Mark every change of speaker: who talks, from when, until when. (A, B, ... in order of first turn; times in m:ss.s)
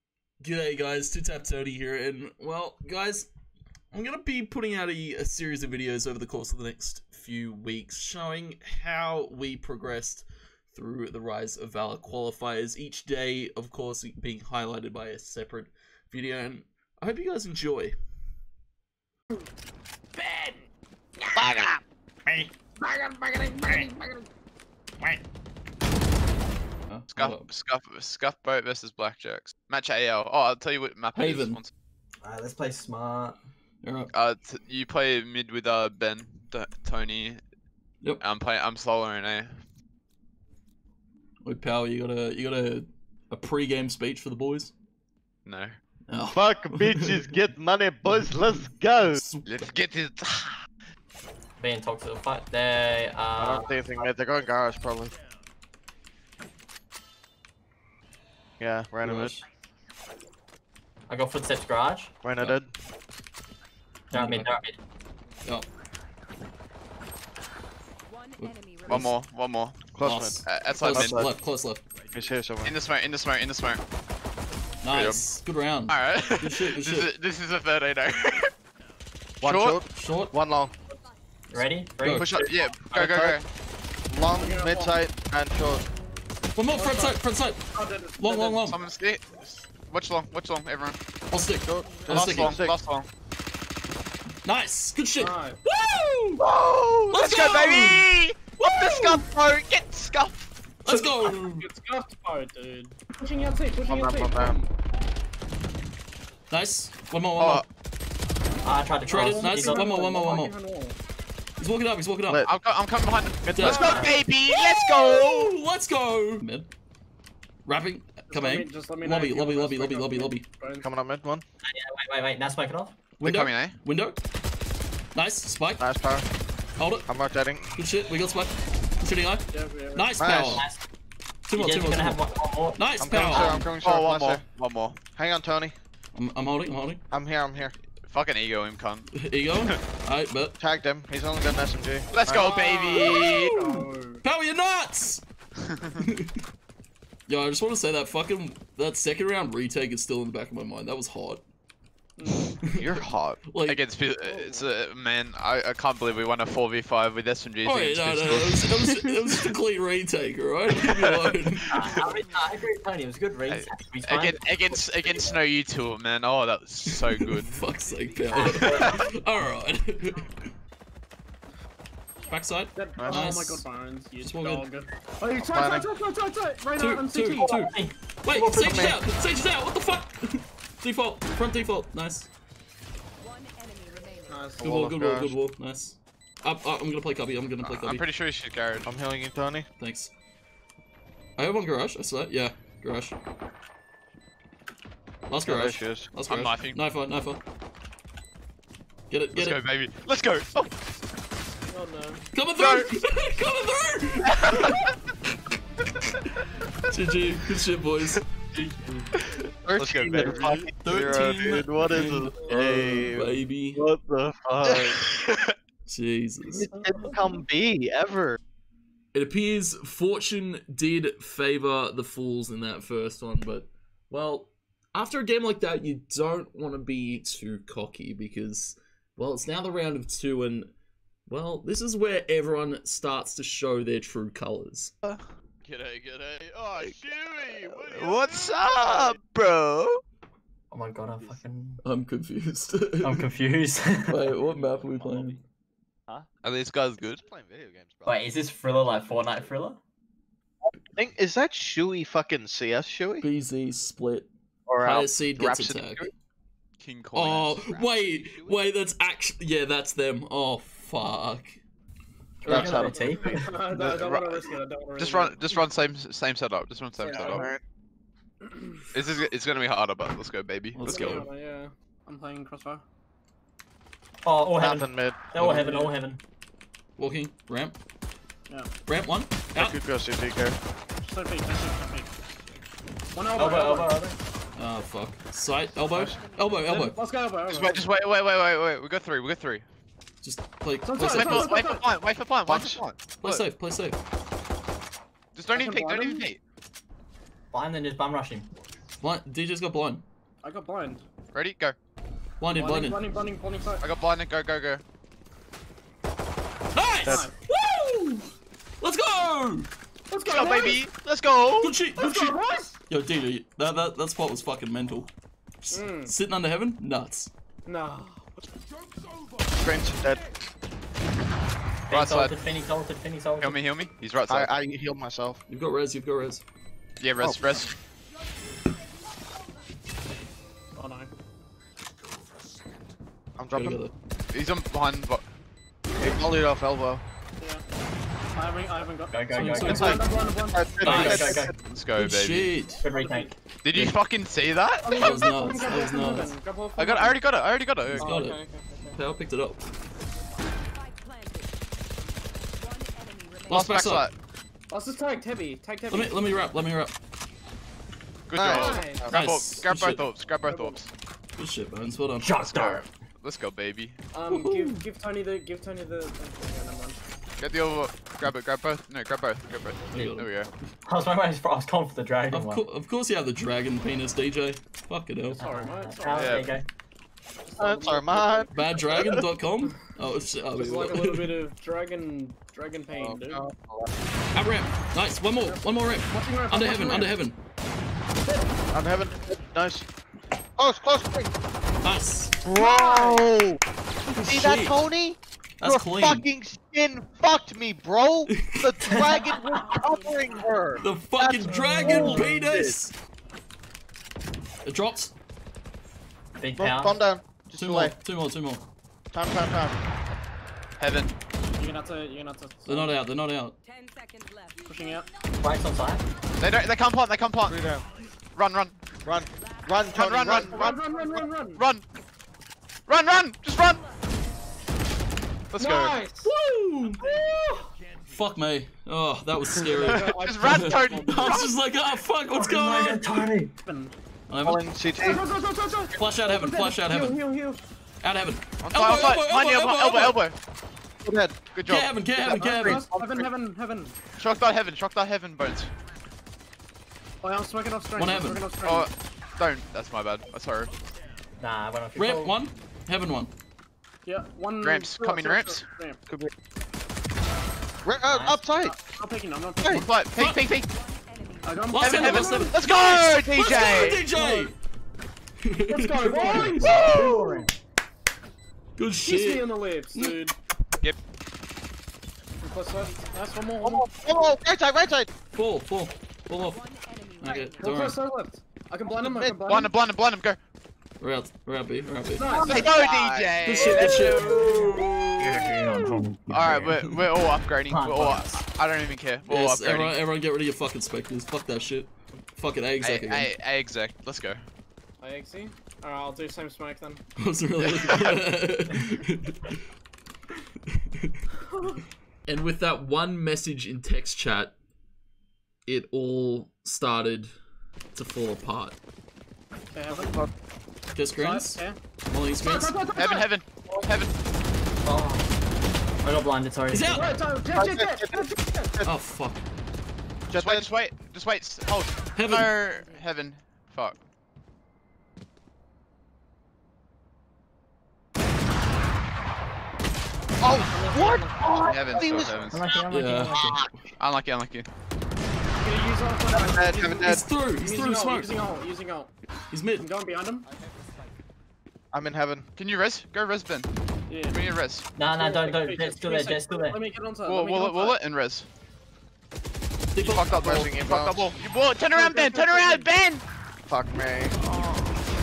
0:00.4-0:03.3 A
0:03.9-0:18.0 A
0:20.2-0:20.6 B
0:21.4-0:21.8 C
0:22.8-0:24.2 B
0:26.9-0:27.5 A
0:27.1-0:31.7 D
0:31.1-0:31.6 A
0:32.2-0:33.4 E
0:33.8-0:34.1 A
0:34.1-0:37.4 D
0:38.2-0:39.6 D
0:41.4-0:44.7 A
0:45.4-0:45.7 D
0:46.1-0:47.2 A
0:46.3-0:49.2 C
0:48.1-0:49.6 A
0:49.4-0:50.6 D
0:51.6-0:53.7 E
0:53.4-0:55.1 C
0:58.6-0:59.4 C
0:59.0-0:59.4 A
1:01.1-1:02.1 E
1:02.2-1:02.7 C
1:04.1-1:04.8 E
1:04.1-1:04.5 A
1:08.0-1:09.2 F
1:08.4-1:09.1 A
1:08.9-1:09.8 D
1:09.9-1:11.3 C
1:10.0-1:11.8 A
1:10.4-1:11.2 D
1:12.1-1:12.8 C
1:12.6-1:13.8 D
1:14.8-1:17.1 A
1:14.9-1:15.2 D
1:15.9-1:18.5 D
1:19.4-1:20.7 C
1:19.4-1:19.8 D
1:19.9-1:20.3 A
1:21.5-1:22.3 E
1:22.0-1:22.3 A
1:22.2-1:23.4 C
1:22.2-1:23.5 D
1:24.1-1:25.8 C
1:24.4-1:25.0 B
1:26.5-1:28.8 A
1:26.7-1:27.2 B
1:27.7-1:28.6 B
1:28.6-1:31.0 D
1:31.3-1:32.6 A
1:31.6-1:32.8 C
1:32.0-1:33.1 D
1:34.4-1:36.4 A
1:35.2-1:35.6 B
1:36.4-1:40.3 D
1:37.1-1:38.0 A
1:38.6-1:39.2 A
1:40.8-1:41.7 A
1:41.4-1:44.6 B
1:43.8-1:44.6 C
1:46.5-1:47.6 A
1:47.4-1:47.6 D
1:48.6-1:50.3 E
1:49.0-1:50.5 A
1:49.1-1:51.0 B
1:51.6-1:52.4 A
1:52.3-1:52.5 C
1:52.4-1:55.5 D
1:53.4-1:53.9 C
1:53.5-1:56.7 A
1:53.6-1:54.2 E
1:53.7-1:54.0 B
1:57.6-2:00.4 A
1:58.3-2:00.8 B
2:00.8-2:01.4 C
2:01.6-2:03.0 E
2:03.2-2:04.2 A
2:03.2-2:03.8 D
2:05.1-2:05.8 A
2:05.8-2:06.2 C
2:06.8-2:07.1 A
2:07.0-2:07.7 C
2:07.7-2:10.6 A
2:09.5-2:10.1 B
2:10.2-2:10.6 C
2:10.5-2:10.8 E
2:11.5-2:12.2 A
2:11.6-2:13.6 E
2:12.7-2:13.6 A
2:13.0-2:14.4 C
2:13.6-2:15.0 D
2:15.1-2:15.8 C
2:16.1-2:17.0 A
2:17.1-2:17.7 C
2:18.0-2:19.1 D
2:19.1-2:20.6 A
2:20.6-2:22.5 C
2:22.1-2:23.6 D
2:22.3-2:24.2 B
2:23.0-2:25.2 A
2:25.7-2:26.0 D
2:26.0-2:26.3 A
2:27.3-2:31.4 A
2:32.2-2:32.6 B
2:32.6-2:32.9 A
2:32.7-2:33.4 C
2:33.5-2:33.8 A
2:33.6-2:39.4 D
2:34.2-2:34.7 B
2:37.6-2:41.8 A
2:40.8-2:42.0 D
2:41.7-2:44.8 E
2:43.5-2:47.6 D
2:47.4-2:50.5 A
2:48.3-2:48.8 E
2:48.4-2:49.0 D
2:52.3-2:53.6 A
2:52.7-2:57.6 B
2:53.0-2:53.3 C
2:54.2-2:54.6 A
2:55.4-2:55.9 C
2:56.8-3:02.3 A
2:57.4-2:59.0 E
2:58.6-2:59.0 C
3:03.2-3:04.5 F
3:04.3-3:04.6 B
3:04.6-3:05.3 C
3:04.6-3:08.0 A
3:07.6-3:08.8 D
3:08.8-3:09.7 C
3:09.8-3:10.1 A
3:11.4-3:13.2 A
3:15.3-3:17.4 A
3:15.4-3:16.1 C
3:16.2-3:16.8 D
3:19.1-3:19.6 A
3:19.3-3:20.7 D
3:21.7-3:22.2 B
3:22.3-3:24.7 A
3:22.5-3:22.9 D
3:24.2-3:24.9 D
3:26.9-3:28.2 A
3:29.2-3:30.7 D
3:29.7-3:35.0 C
3:30.8-3:33.8 A
3:34.6-3:35.5 D
3:35.8-3:36.7 A
3:36.5-3:38.4 C
3:36.7-3:37.1 B
3:39.1-3:50.7 A
3:51.3-3:54.9 A
3:55.0-4:00.0 D
3:56.4-3:59.2 C
4:00.7-4:01.8 E
4:01.8-4:03.3 A
4:03.0-4:04.3 E
4:04.1-4:05.4 A
4:04.5-4:05.4 C
4:06.4-4:07.2 D
4:07.1-4:08.3 C
4:08.0-4:09.8 E
4:10.8-4:13.2 C
4:13.2-4:14.3 A
4:14.6-4:16.1 C
4:14.8-4:16.1 A
4:16.8-4:17.6 D
4:17.1-4:21.6 A
4:17.4-4:18.7 C
4:22.4-4:23.6 E
4:22.5-4:23.3 C
4:22.5-4:25.7 B
4:23.7-4:27.5 D
4:27.0-4:27.5 B
4:27.1-4:27.6 C
4:28.4-4:28.8 B
4:28.9-4:31.0 D
4:30.7-4:31.3 A
4:30.8-4:32.8 B
4:34.2-4:36.2 E
4:34.6-4:35.2 C
4:35.3-4:35.9 A
4:37.0-4:37.8 A
4:38.8-4:39.8 A
4:39.5-4:40.6 C
4:41.0-4:42.1 B
4:43.1-4:43.9 B
4:43.3-4:44.2 E
4:44.6-4:47.0 A
4:45.9-4:46.2 D
4:46.0-4:46.8 F
4:46.7-4:47.9 B
4:47.5-4:49.6 D
4:50.2-4:51.6 A
4:50.8-4:51.9 B
4:51.0-4:53.4 D
4:52.5-4:52.8 C
4:53.2-4:54.0 A
4:55.3-4:56.4 D
4:55.5-4:56.3 B
4:57.5-4:58.5 E
4:59.0-5:00.0 A
5:00.4-5:01.0 B
5:01.3-5:01.8 D
5:02.4-5:03.0 A
5:02.5-5:03.8 B
5:03.8-5:04.8 D
5:06.7-5:09.7 A
5:10.1-5:10.8 B
5:10.2-5:11.8 D
5:11.6-5:15.1 A
5:11.9-5:12.8 B
5:15.6-5:17.3 A
5:15.7-5:16.1 B
5:17.6-5:18.3 B
5:19.6-5:20.2 C
5:21.9-5:23.6 E
5:21.9-5:22.4 D
5:23.4-5:24.5 D
5:24.3-5:25.4 C
5:25.5-5:26.4 A
5:27.0-5:27.7 D
5:30.8-5:31.1 B
5:33.4-5:33.8 C
5:33.5-5:33.9 A
5:34.3-5:35.2 D
5:36.0-5:37.0 C
5:37.4-5:37.6 B
5:38.3-5:41.2 B
5:39.1-5:39.9 E
5:39.3-5:40.0 A
5:39.6-5:41.6 C
5:40.8-5:41.6 E
5:40.8-5:41.3 A
5:41.5-5:42.6 D
5:42.0-5:42.8 A
5:42.8-5:43.4 E
5:42.9-5:43.3 B
5:43.6-5:45.4 D
5:44.8-5:47.3 B
5:44.9-5:46.3 A
5:46.8-5:48.1 D
5:47.9-5:48.4 A
5:48.0-5:49.0 B
5:48.9-5:49.6 A
5:50.7-5:51.5 F
5:52.6-5:53.8 F
5:53.5-5:54.1 A
5:53.5-5:54.1 D
5:54.7-5:56.3 B
5:55.9-5:56.9 A
5:58.3-6:00.9 D
5:58.3-5:59.1 C
5:58.4-5:59.1 B
5:59.1-6:00.0 A
6:00.4-6:00.8 B
6:01.4-6:02.5 A
6:02.2-6:02.9 E
6:02.5-6:04.0 D
6:04.1-6:07.0 B
6:04.3-6:04.8 A
6:07.4-6:10.5 D
6:09.9-6:10.3 A
6:10.8-6:12.6 E
6:12.3-6:15.4 A
6:15.3-6:16.6 E
6:15.4-6:16.5 B
6:16.1-6:16.5 D
6:17.5-6:18.9 B
6:17.6-6:19.2 C
6:18.5-6:21.3 A
6:20.5-6:23.4 B
6:22.9-6:24.0 C
6:24.3-6:27.4 A
6:25.4-6:27.2 B
6:28.2-6:28.5 B
6:28.7-6:29.9 C
6:30.6-6:31.3 C
6:31.8-6:32.4 A
6:32.4-6:33.6 C
6:32.5-6:33.3 B
6:34.1-6:34.8 A
6:34.2-6:42.8 C
6:35.6-6:36.2 A
6:38.3-6:38.7 A
6:38.8-6:39.4 E
6:40.8-6:42.9 A
6:41.6-6:42.3 E
6:44.6-6:45.1 A
6:46.4-6:47.0 E
6:46.6-6:47.9 C
6:47.5-6:48.6 A
6:49.1-6:49.8 C
6:50.8-6:51.1 D
6:51.6-6:52.9 B
6:52.6-6:53.6 A
6:53.6-6:55.0 F
6:54.6-6:55.1 B
6:55.4-6:56.0 E
6:56.4-6:57.6 D
6:57.4-6:57.8 C
6:58.3-6:58.8 D
6:59.0-7:00.7 C
6:59.4-7:01.2 F
6:59.9-7:01.8 D
7:00.4-7:01.6 B
7:02.9-7:03.8 D
7:03.8-7:04.1 F
7:05.5-7:06.0 D
7:05.6-7:06.3 B
7:06.2-7:07.0 A
7:07.0-7:07.7 B
7:08.1-7:13.3 A
7:09.6-7:11.5 B
7:09.8-7:11.5 D
7:12.3-7:13.5 E
7:13.6-7:13.9 B
7:14.3-7:14.6 A
7:14.4-7:15.2 C
7:15.0-7:17.6 B
7:15.9-7:17.2 A
7:18.0-7:20.2 A
7:18.6-7:20.4 D
7:21.0-7:21.4 C
7:21.5-7:21.9 D
7:21.7-7:22.8 A
7:22.2-7:23.3 C
7:22.6-7:24.0 B
7:24.2-7:25.7 D
7:27.2-7:28.9 B
7:28.0-7:28.4 A
7:28.6-7:30.7 D
7:31.4-7:32.4 E
7:32.0-7:33.3 A
7:34.0-7:36.0 B
7:34.6-7:35.6 D
7:37.8-7:38.7 C
7:38.0-7:38.4 E
7:38.5-7:39.9 B
7:39.7-7:40.7 D
7:40.1-7:40.4 A
7:40.6-7:42.5 F
7:41.4-7:42.6 B
7:41.7-7:44.5 A
7:41.8-7:44.0 D
7:44.0-7:44.5 B
7:45.4-7:46.8 A
7:45.7-7:46.9 B
7:46.0-7:47.5 E
7:46.6-7:47.2 D
7:48.8-7:50.2 A
7:49.0-7:50.3 B
7:52.4-7:53.8 B
7:53.6-7:55.1 C
7:55.3-7:56.6 A
7:56.4-7:57.9 F
7:57.2-7:58.0 A
7:57.6-7:59.7 B
7:59.0-7:59.4 C
7:59.4-8:00.4 D
8:01.0-8:02.3 A
8:02.2-8:02.8 B
8:02.3-8:03.4 C
8:02.5-8:03.8 D
8:03.4-8:07.0 A
8:03.5-8:04.4 B
8:03.8-8:06.8 E
8:06.3-8:10.0 D
8:07.6-8:08.4 E
8:09.3-8:13.3 A
8:12.8-8:14.4 D
8:15.0-8:17.0 B
8:17.2-8:19.6 A
8:17.6-8:18.2 D
8:21.5-8:21.8 B
8:22.2-8:24.5 A
8:25.6-8:27.3 A
8:27.9-8:28.8 A
8:29.7-8:30.2 B
8:29.9-8:30.3 C
8:30.9-8:32.8 A
8:31.2-8:31.8 B
8:32.4-8:33.3 B
8:32.9-8:34.1 D
8:34.8-8:35.3 E
8:36.0-8:37.2 E
8:36.7-8:37.2 A
8:36.9-8:38.7 B
8:37.5-8:38.9 C
8:38.8-8:39.4 A
8:40.3-8:40.7 C
8:40.3-8:44.0 D
8:42.1-8:42.5 A
8:50.4-8:52.8 C
8:50.7-8:53.5 E
8:51.6-8:52.6 D
8:52.9-8:53.7 A
8:54.0-8:54.7 D
8:55.6-8:59.1 B
8:56.3-8:57.3 C
8:57.0-8:58.3 A
8:59.5-8:59.9 A
8:59.8-9:00.5 B
9:01.9-9:02.5 C
9:02.6-9:03.7 D
9:04.1-9:04.4 B
9:04.3-9:04.9 D
9:04.9-9:06.8 E
9:05.0-9:08.0 B
9:07.2-9:08.5 D
9:09.9-9:10.7 A
9:10.0-9:11.3 C
9:10.2-9:13.2 D
9:11.9-9:12.9 B
9:13.6-9:14.4 C
9:14.4-9:14.9 A